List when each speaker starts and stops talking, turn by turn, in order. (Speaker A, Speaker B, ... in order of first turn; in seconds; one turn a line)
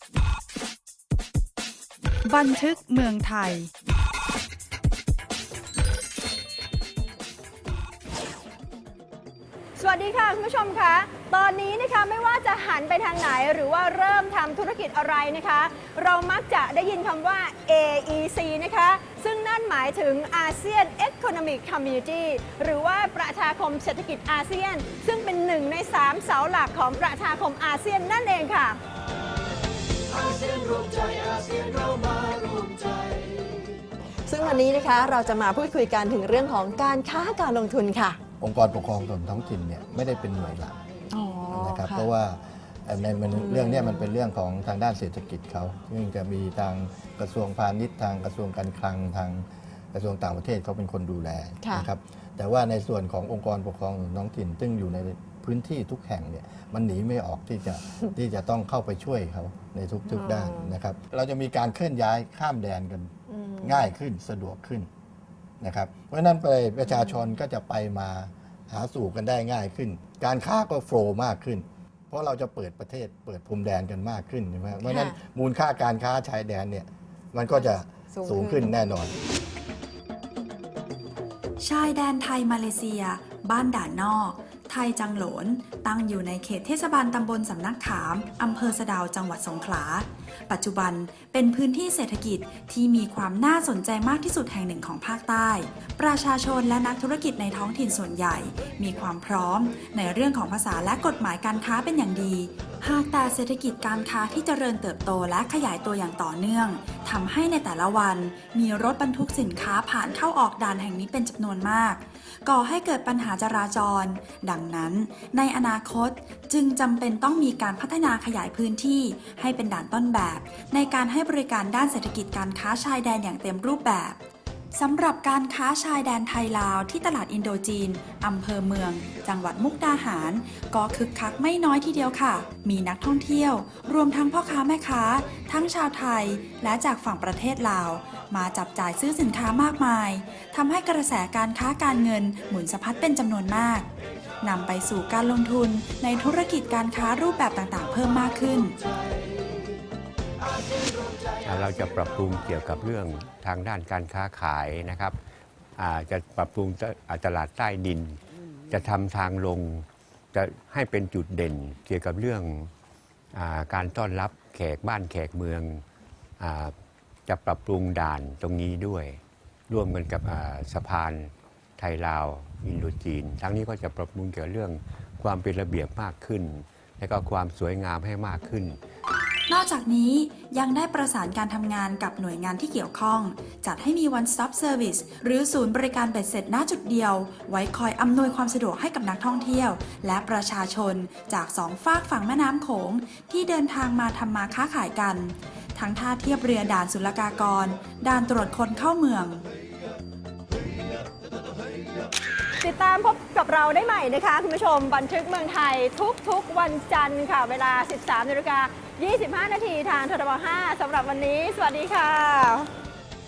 Speaker A: 2.2-3.7
Speaker B: 9.8-28.8
Speaker C: 30.5-33.2
Speaker C: 34.2-38.2
Speaker D: 38.4-40.8
Speaker C: 41.1-42.1
Speaker D: 41.5-64.9
Speaker C: 43.4-44.0
Speaker C: 60.2-60.7
Speaker C: 63.3-63.8
Speaker D: 65.6-79.1
Speaker C: 74.9-75.1
Speaker C: 78.1-78.7
Speaker A: 81.6-124.2
Speaker A: 124.8-143.9
Speaker A: 144.4-148.8
Speaker E: 151.4-155.2
Speaker E: 155.8-162.7
Speaker E: 163.3-165.8
Speaker E: 166.4-166.7
Speaker E: 167.3-178.8
Speaker A: 179.5-199.5
Speaker B: 202.6-212.7